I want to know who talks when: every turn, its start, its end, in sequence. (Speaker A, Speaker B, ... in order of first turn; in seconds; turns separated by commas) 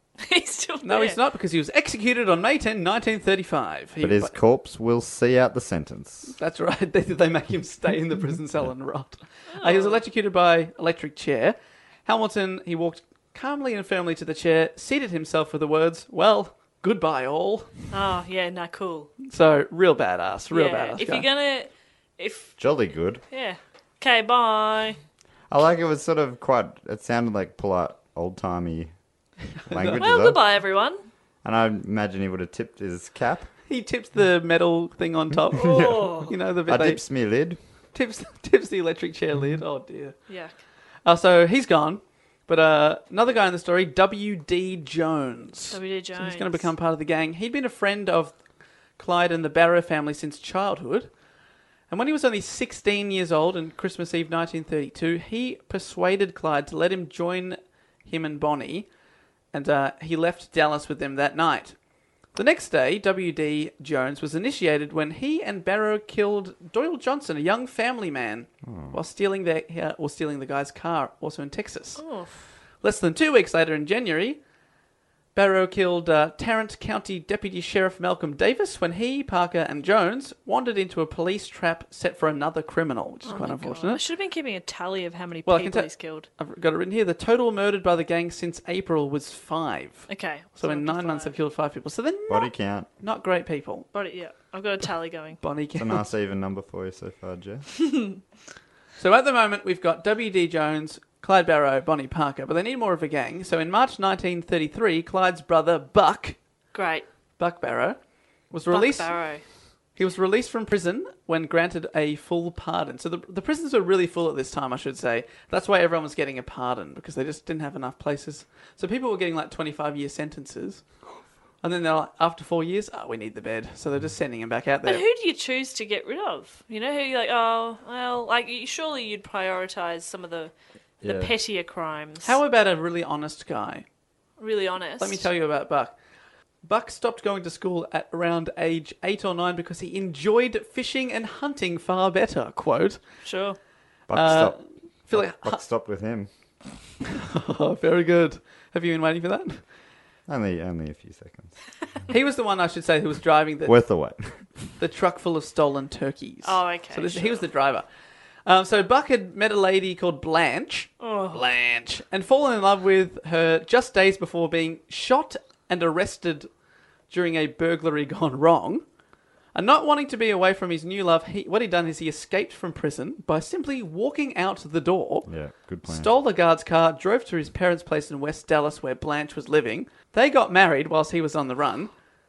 Speaker A: 0.2-1.2, Speaker B: 0.8-4.3, Speaker C: 4.0-6.3, Speaker B: 6.4-17.9, Speaker A: 9.5-10.0, Speaker A: 17.9-19.1, Speaker B: 19.2-21.3, Speaker A: 20.5-22.6, Speaker C: 22.6-23.2, Speaker A: 23.3-25.0, Speaker C: 25.5-28.9, Speaker B: 29.6-30.0, Speaker C: 29.7-30.4, Speaker A: 29.9-31.0, Speaker C: 31.4-33.5, Speaker B: 33.7-37.0, Speaker A: 35.5-36.3, Speaker C: 35.6-37.6, Speaker B: 37.9-40.1, Speaker A: 40.3-40.5, Speaker B: 41.0-48.4, Speaker A: 45.7-46.7, Speaker B: 49.0-51.1, Speaker B: 51.9-58.9, Speaker B: 59.5-61.8, Speaker B: 62.3-72.0, Speaker C: 68.6-69.0, Speaker A: 72.0-72.4, Speaker B: 72.8-74.4, Speaker B: 75.3-84.0, Speaker A: 83.2-86.3, Speaker B: 85.5-93.9, Speaker A: 90.1-91.4, Speaker C: 92.3-92.9, Speaker A: 93.9-95.4, Speaker B: 95.4-96.1, Speaker C: 95.7-97.7, Speaker A: 97.9-98.2, Speaker B: 99.0-106.4, Speaker A: 106.7-107.0, Speaker B: 107.4-108.0, Speaker B: 108.5-109.2, Speaker A: 108.7-109.4, Speaker B: 110.0-120.8, Speaker B: 121.6-125.0, Speaker A: 124.8-130.5, Speaker C: 131.0-131.3, Speaker A: 131.0-132.4, Speaker B: 132.2-133.8, Speaker A: 134.4-135.2, Speaker B: 135.0-135.9, Speaker B: 136.6-143.0, Speaker A: 143.2-143.6, Speaker C: 144.1-144.6, Speaker B: 144.1-144.6, Speaker B: 145.1-145.6, Speaker C: 145.1-146.3, Speaker B: 147.1-149.6, Speaker C: 150.3-151.5, Speaker B: 152.1-153.7, Speaker C: 153.7-154.4, Speaker B: 154.8-157.8, Speaker A: 156.4-157.4, Speaker B: 158.4-166.5, Speaker A: 161.0-161.4, Speaker B: 167.1-168.8, Speaker B: 169.5-175.3, Speaker C: 175.2-176.1, Speaker B: 175.8-181.9